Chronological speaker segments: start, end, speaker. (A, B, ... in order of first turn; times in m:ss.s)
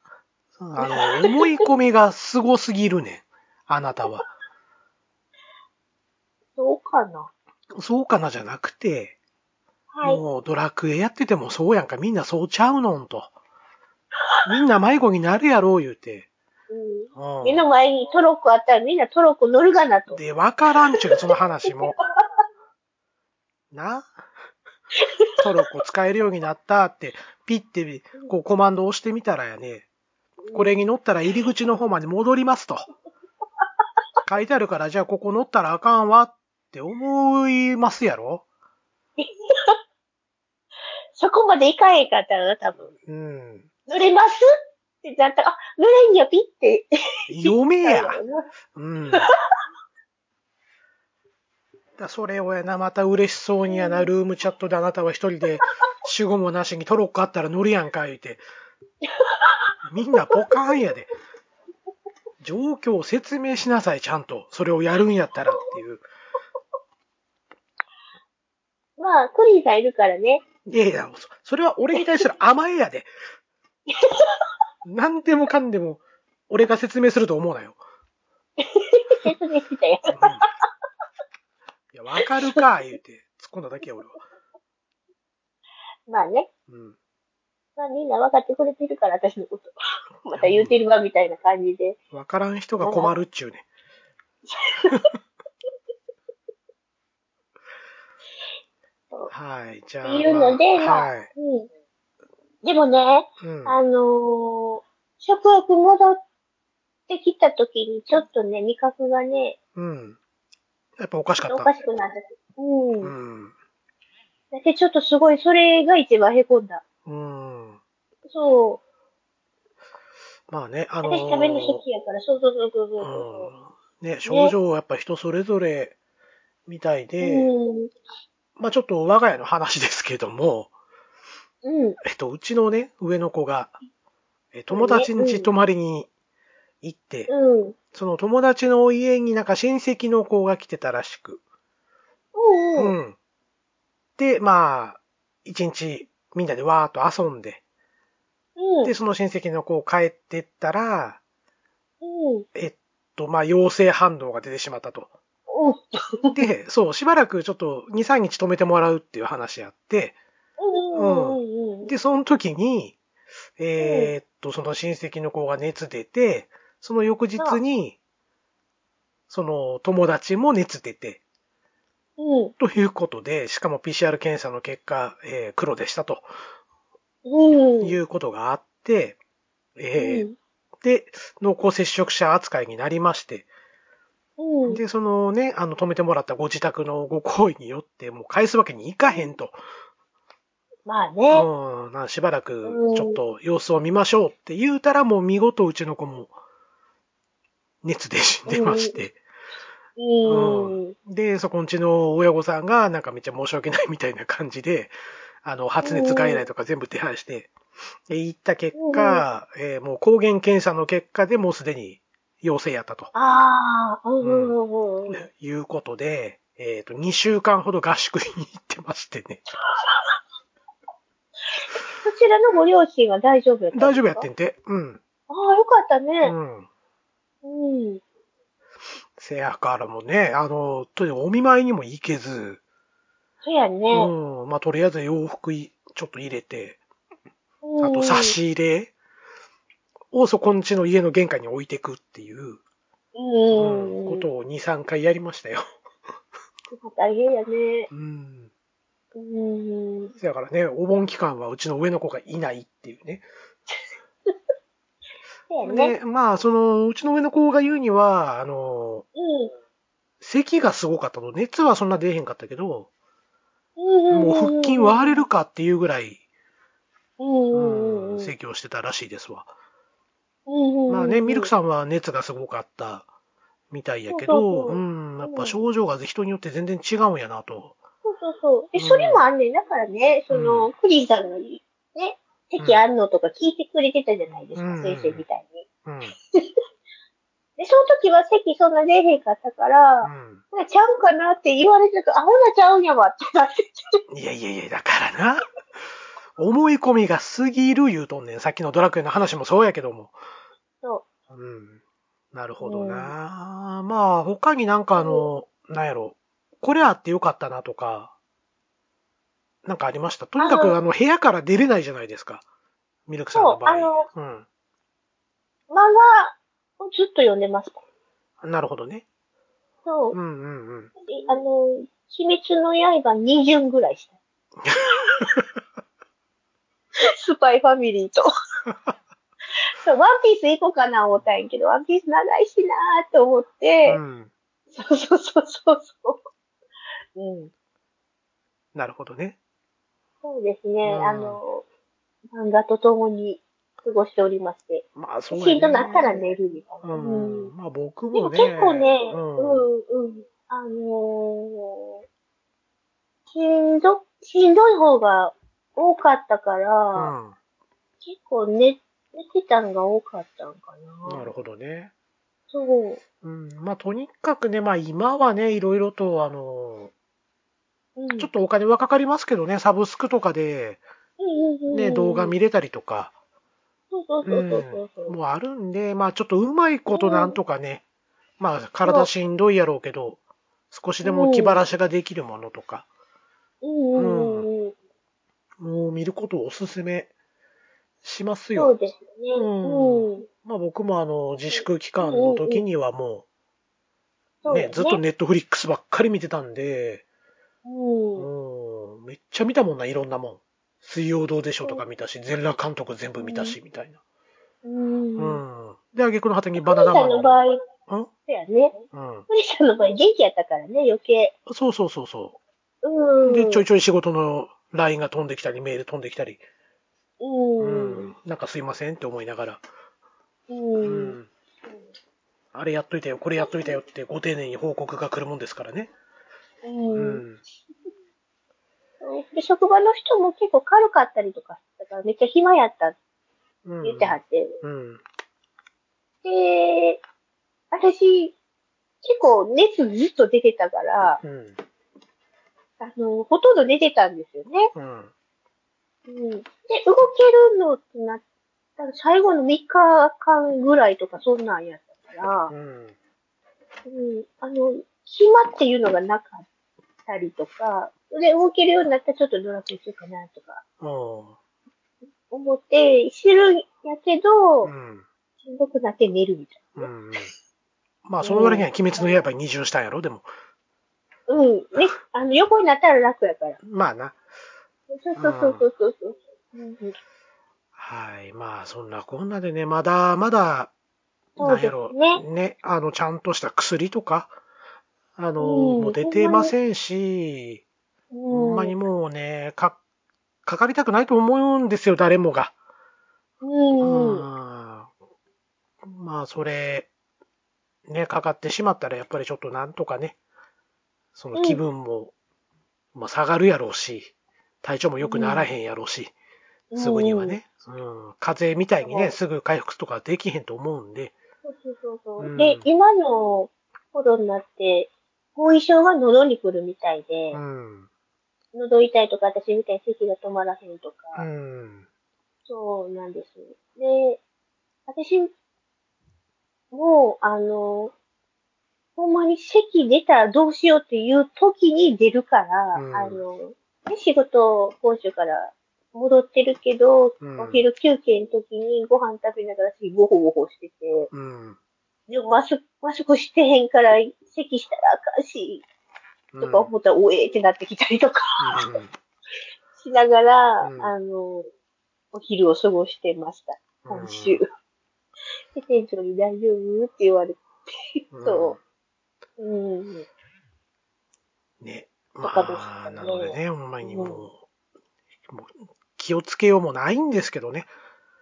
0:00.6-0:04.3 A
0:00.8-0:01.7 B
0:06.6-0:07.3 B
0:07.7-0:09.2 A
0:09.9-0:10.2 B
0:10.0-0:13.3 A
0:14.5-0:16.3 A
0:16.7-0:20.2 B
0:17.2-0:17.6 A
0:20.1-0:22.0 A
0:21.0-0:22.2 B
0:23.7-0:24.1 A
0:25.0-0:25.3 B
0:25.4-0:29.9 A
0:30.5-0:30.8 B
0:30.5-0:32.8 A
0:34.2-0:38.4 A
0:39.2-0:39.8 B
0:41.2-0:42.9 B
0:43.0-0:43.7 A
0:43.9-0:44.4 B
0:45.0-0:46.9 B
0:47.3-0:48.2 A
0:47.4-0:48.4 B
0:48.8-0:49.3 A
0:52.0-0:58.4 A
0:53.7-0:54.1 B
0:59.0-0:59.6 B
0:59.8-1:01.1 A
1:02.4-1:06.0 A
1:09.0-1:10.4 B
1:10.7-1:13.1 A
1:12.0-1:12.2 B
1:13.9-1:14.4 B
1:14.8-1:17.8 A
1:18.6-1:20.5 B
1:20.1-1:20.4 A
1:21.9-1:24.2 A
1:22.2-1:22.6 B
1:26.1-1:26.5 B
1:26.7-1:27.0 A
1:27.8-1:32.0 B
1:30.4-1:30.7 A
1:32.1-1:33.6 A
1:32.8-1:33.1 B
1:34.5-1:35.1 B
1:39.3-1:41.3 A
1:40.0-1:41.7 B
1:42.6-1:46.2 B
1:43.4-1:43.8 A
1:47.1-1:49.6 B
1:49.8-1:50.2 A
1:51.0-1:51.7 A
1:51.5-1:53.1 B
1:53.0-1:53.5 A
1:54.5-1:56.8 B
1:57.1-1:57.8 A
1:58.3-1:58.8 B
2:00.5-2:01.8 A
2:01.0-2:03.5 B
2:03.0-2:06.0 A
2:04.3-2:04.6 B
2:06.7-2:07.5 A
2:07.2-2:07.9 B
2:08.6-2:10.7 A
2:11.6-2:12.0 B
2:12.0-2:13.8 A
2:14.5-2:16.1 A
2:14.7-2:15.5 B
2:16.8-2:17.3 A
2:17.3-2:17.8 B
2:17.9-2:21.4 A
2:22.4-2:23.0 B
2:22.8-2:23.2 A
2:24.2-2:27.6 A
2:28.6-2:28.9 B
2:28.8-2:31.2 A
2:32.0-2:32.5 B
2:32.6-2:35.1 A
2:35.5-2:36.4 B
2:36.3-2:40.2 A
2:40.6-2:41.9 B
2:41.0-2:43.0 A
2:43.6-2:48.0 A
2:43.8-2:44.1 B
2:49.3-2:51.2 A
2:52.2-2:52.5 B
2:52.6-2:56.3 A
2:57.3-2:58.0 B
2:57.8-2:59.2 A
2:59.8-3:00.3 A
3:00.0-3:00.4 B
3:00.8-3:03.5 A
3:04.4-3:04.8 B
3:04.7-3:09.6 A
3:10.9-3:11.5 B
3:11.3-3:16.3 A
3:12.6-3:13.2 B
3:17.8-3:19.2 A
3:18.5-3:19.0 B
3:20.0-3:21.0 B
3:20.3-3:27.5 A
3:25.8-3:26.5 B
3:28.1-3:33.1 A
3:28.7-3:29.2 B
3:33.1-3:35.2 B
3:34.2-3:34.6 A
3:35.1-3:39.4 A
3:39.8-3:40.1 B
3:42.0-3:44.3 B
3:43.7-3:45.0 A
3:45.3-3:46.4 B
3:46.2-3:46.7 A
3:47.4-3:48.0 B
3:49.2-3:52.6 A
3:53.4-3:54.1 B
3:53.9-3:56.8 A
3:57.6-3:58.4 B
3:57.8-3:58.9 A
4:00.1-4:02.6 A
4:03.2-4:04.3 B
4:03.5-4:05.6 A
4:06.7-4:07.9 B
4:07.9-4:08.5 A
4:09.2-4:10.1 B
4:10.2-4:13.3 A
4:15.5-4:15.9 B
4:15.6-4:19.1 A
4:19.2-4:19.5 B
4:20.2-4:22.9 A
4:23.8-4:25.2 B
4:24.1-4:26.2 A
4:27.2-4:28.3 B
4:27.5-4:29.5 A
4:30.5-4:31.5 B
4:30.9-4:33.1 A
4:33.7-4:37.8 A
4:34.1-4:35.6 B
4:38.0-4:45.6 B
4:38.8-4:39.2 A
4:40.3-4:40.7 A
4:42.6-4:42.8 A
4:44.6-4:45.2 A
4:45.8-4:46.1 A
4:47.6-4:54.0 B
4:50.0-4:50.4 A
4:54.1-4:55.4 A
4:56.4-5:00.1 A
5:01.3-5:01.8 A
5:02.3-5:08.1 A
5:02.6-5:03.1 B
5:05.0-5:05.3 B
5:09.6-5:12.4 A
5:10.4-5:10.8 B
5:13.1-5:14.5 A
5:13.3-5:14.1 B
5:15.7-5:17.8 B
5:18.4-5:19.0 A
5:19.9-5:20.2 B
5:20.1-5:20.9 A
5:21.1-5:24.2 B
5:24.6-5:25.5 A
5:27.0-5:28.3 B
5:28.7-5:28.9 A
5:29.7-5:34.0 B
5:33.9-5:34.3 A
5:34.7-5:36.2 B
5:37.2-5:37.5 B
5:38.7-5:39.4 A
5:40.2-5:41.6 B
5:40.8-5:41.4 A
5:42.3-5:47.5 B
5:45.0-5:46.3 A
5:46.8-5:49.7 A
5:48.1-5:52.0 B
5:53.3-5:57.1 B
5:57.0-5:57.4 A
5:58.0-6:01.3 B
6:01.1-6:01.9 A
6:02.5-6:03.0 B
6:03.2-6:06.9 A
6:08.0-6:08.3 B
6:08.2-6:10.8 A
6:11.2-6:12.4 B
6:11.7-6:13.1 A
6:13.9-6:15.2 B
6:14.2-6:17.8 A
6:16.9-6:17.4 B
6:18.4-6:20.2 A
6:20.7-6:22.9 A
6:21.0-6:21.6 B
6:23.6-6:24.7 B
6:24.0-6:24.5 A
6:25.6-6:27.1 A
6:28.0-6:28.7 A
6:28.6-6:30.3 B
6:29.4-6:33.2 A
6:31.5-6:32.6 B
6:34.4-6:35.0 B
6:34.5-6:37.0 A
6:37.6-6:38.3 B
6:38.2-6:44.0 A
6:43.2-6:43.6 B
6:44.6-6:45.4 B
6:45.2-6:47.4 A
6:46.6-6:47.6 B
6:48.3-6:48.8 B
6:48.9-6:49.3 A
6:49.3-6:51.3 B
6:51.5-6:52.4 A
6:52.8-6:53.6 B
6:53.2-6:56.4 A
6:57.2-6:58.1 B
6:57.6-6:59.6 A
7:00.5-7:01.2 B
7:00.8-7:01.3 A
7:02.5-7:05.9 A
7:03.4-7:03.8 B
7:06.6-7:07.2 B
7:07.0-7:07.4 A
7:09.0-7:13.0 B
7:13.6-7:15.0 A
7:13.8-7:14.6 B
7:16.2-7:17.0 B
7:17.7-7:18.4 B
7:19.0-7:21.2 B
7:21.2-7:21.6 A
7:22.8-7:24.7 B
7:24.8-7:25.1 A
7:26.1-7:28.2 B
7:28.8-7:32.5 B
7:32.5-7:33.0 A
7:33.9-7:36.5 B
7:37.1-7:40.6 B
7:40.8-7:41.4 A
7:42.3-7:44.7 B
7:44.6-7:45.0 A
7:45.4-7:46.9 B
7:46.8-7:47.3 A
7:48.0-7:50.3 A
7:48.2-7:49.2 B
7:51.3-7:53.6 B
7:53.6-7:54.2 A
7:54.9-7:57.0 B
7:55.2-7:55.6 A
7:57.8-8:00.7 A
8:01.4-8:02.2 B
8:01.4-8:04.3 A
8:05.2-8:07.6 A
8:05.4-8:06.5 B
8:08.1-8:08.8 B
8:08.3-8:09.8 A
8:10.4-8:12.5 A
8:13.4-8:14.3 B
8:13.8-8:14.9 A
8:15.8-8:16.9 A
8:17.9-8:20.2 A
8:21.2-8:22.1 A
8:21.3-8:21.6 B
8:22.9-8:26.1 A
8:25.0-8:25.5 B
8:26.7-8:27.4 B
8:26.8-8:31.2 A
8:28.8-8:29.2 B
8:31.4-8:37.4 B
8:32.2-8:32.7 A
8:37.3-8:37.9 A
8:38.5-8:41.3 B
8:41.2-8:41.8 A
8:42.5-8:44.2 B
8:44.9-8:45.3 B
8:46.7-8:47.9 B
8:49.0-9:01.1 B
8:52.7-8:53.2 A
8:57.2-8:57.6 A
9:01.1-9:01.6 A
9:02.1-9:05.6 B
9:06.3-9:06.7 A
9:06.4-9:08.8 B
9:08.4-9:08.9 A
9:09.8-9:11.5 B
9:10.6-9:10.9 A
9:12.1-9:14.4 B
9:13.8-9:14.4 A
9:15.5-9:18.6 B
9:18.1-9:18.6 A
9:19.4-9:20.1 B
9:21.6-9:24.4 A
9:22.2-9:24.2 B
9:25.3-9:27.7 A